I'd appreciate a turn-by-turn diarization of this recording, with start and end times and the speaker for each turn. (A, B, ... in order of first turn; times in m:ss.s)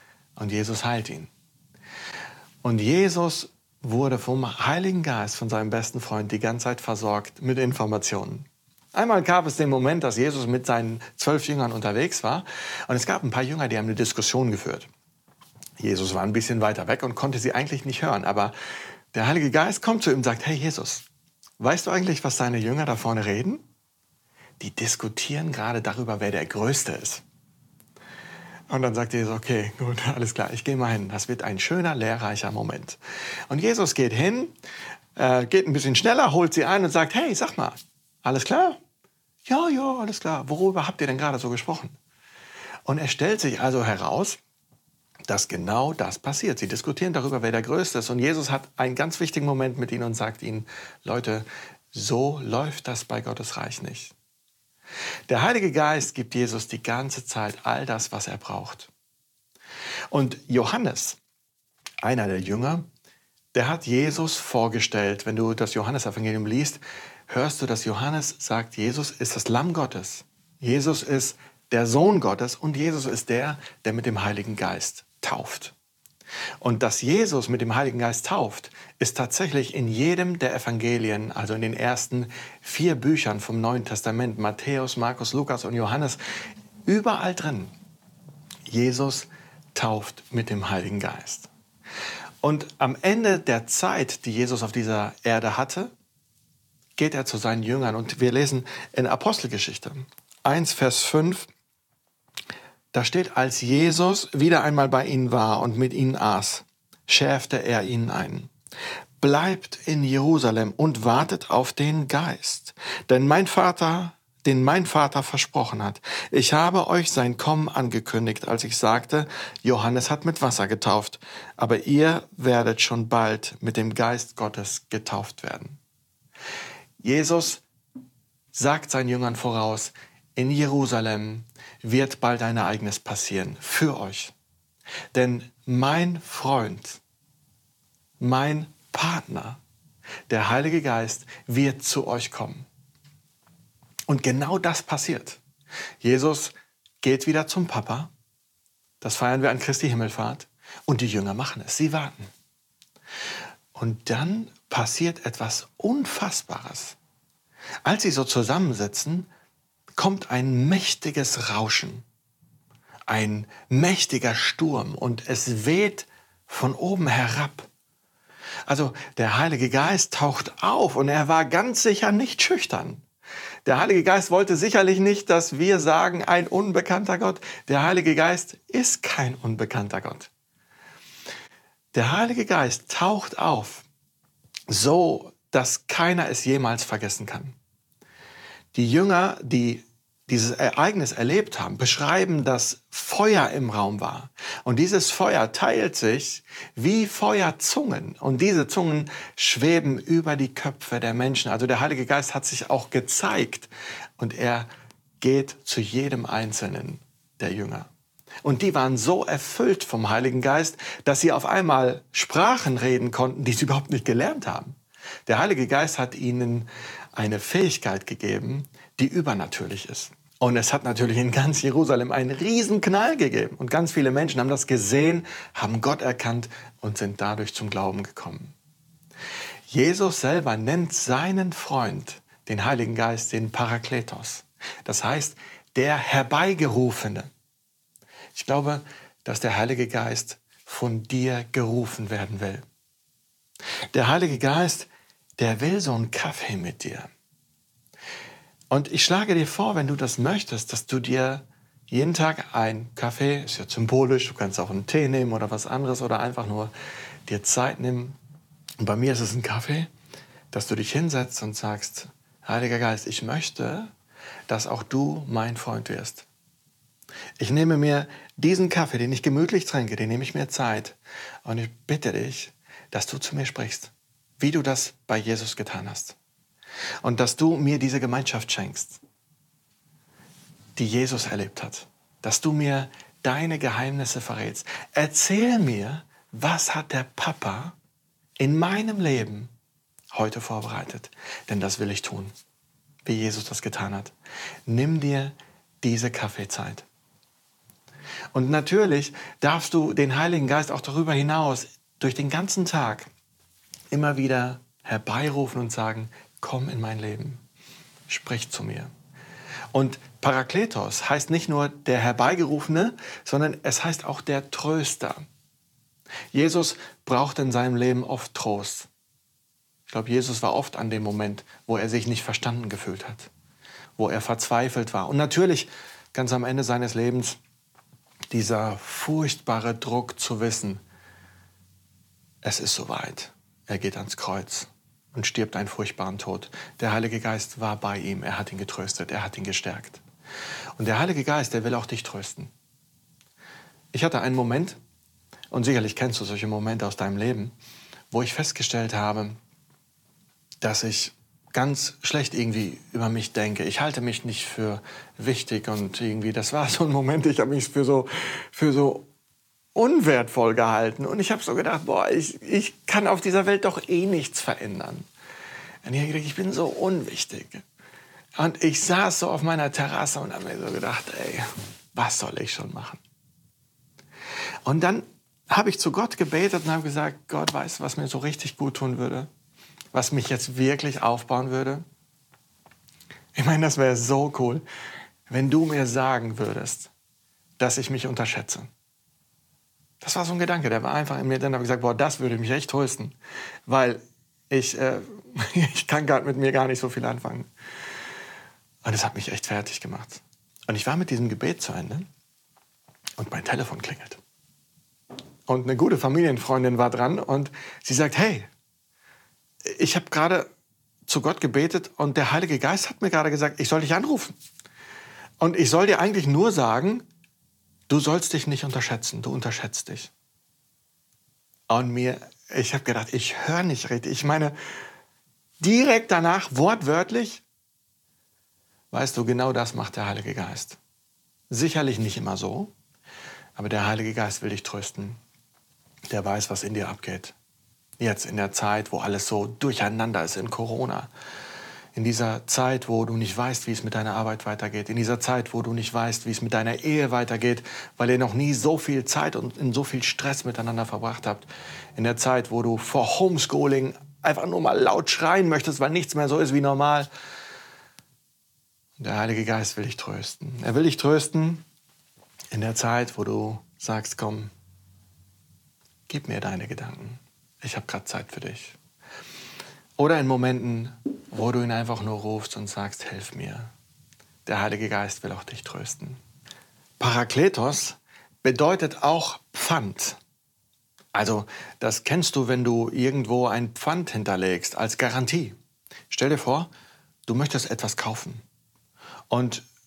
0:00.4-0:01.3 A
0:02.6-0:14.9 A
0:15.8-0:18.5 A
0:19.1-0:21.0 A
0:21.6-0:23.6 A
0:24.6-0:27.2 A
0:28.7-0:34.5 A
0:35.2-0:38.8 A
0:39.4-0:42.0 A
0:42.8-0:44.4 A
0:45.3-0:54.1 A
0:55.3-0:58.9 A
1:00.1-1:01.2 A
1:02.0-1:02.9 A
1:03.5-1:15.7 A
1:16.6-1:26.2 A
1:26.8-1:27.7 A
1:28.7-1:31.5 A
1:32.4-1:35.9 A
1:37.0-1:41.5 A
1:42.9-1:48.5 A
1:49.2-2:05.8 A
2:07.0-2:07.6 A
2:08.5-2:14.3 A
2:15.1-2:17.0 A
2:18.2-2:19.6 A
2:20.3-2:22.7 A
2:24.1-2:25.4 A
2:26.0-2:28.1 A
2:29.0-2:32.3 A
2:33.7-2:37.0 A
2:37.8-2:39.3 A
2:40.0-2:42.0 A
2:43.1-2:47.7 A
2:48.7-2:53.0 A
2:53.6-3:00.3 A
3:01.9-3:03.8 A
3:04.7-3:07.6 A
3:08.7-3:24.7 A
3:25.2-3:27.9 A
3:28.4-3:48.5 A
3:49.7-3:57.3 A
3:58.3-4:02.6 A
4:03.9-4:07.1 A
4:08.7-4:16.7 A
4:17.2-4:18.2 A
4:18.8-4:19.9 A
4:20.5-4:23.9 A
4:24.5-4:26.3 A
4:27.4-4:36.2 A
4:37.0-4:39.0 A
4:40.8-4:47.8 A
4:48.4-4:49.5 A
4:50.1-4:52.3 A
4:53.0-4:54.1 A
4:54.7-4:56.8 A
4:58.3-5:03.1 A
5:03.9-5:07.4 A
5:08.1-5:08.9 A
5:09.7-5:15.2 A
5:16.3-5:18.9 A
5:19.9-5:23.3 A
5:24.0-5:27.4 A
5:28.3-5:30.8 A
5:32.4-5:40.0 A
5:40.8-5:42.5 A
5:43.9-5:44.8 A
5:45.5-5:47.5 A
5:48.1-5:49.4 A
5:50.6-5:59.1 A
5:59.7-6:05.1 A
6:05.8-6:07.6 A
6:08.4-6:13.0 A
6:14.6-6:19.3 A
6:19.9-6:21.8 A
6:23.3-6:24.6 A
6:25.3-6:26.9 A
6:27.6-6:28.7 A
6:30.0-6:37.5 A
6:38.8-6:42.1 A
6:43.2-6:44.2 A
6:45.5-6:48.5 A
6:49.6-6:50.5 A
6:51.0-6:54.3 A
6:55.4-6:57.0 A
6:57.9-7:00.1 A
7:01.7-7:04.6 A
7:05.6-7:07.4 A
7:08.9-7:10.8 A
7:11.5-7:12.7 A
7:13.6-7:15.2 A
7:16.1-7:17.3 A
7:18.0-7:21.1 A
7:21.9-7:37.1 A
7:39.0-7:41.6 A
7:42.5-7:44.5 A
7:46.1-7:48.8 A
7:50.0-7:53.7 A
7:54.4-7:56.2 A
7:57.0-8:00.2 A
8:01.1-8:05.6 A
8:06.1-8:06.7 A
8:07.2-8:08.4 A
8:09.3-8:09.6 A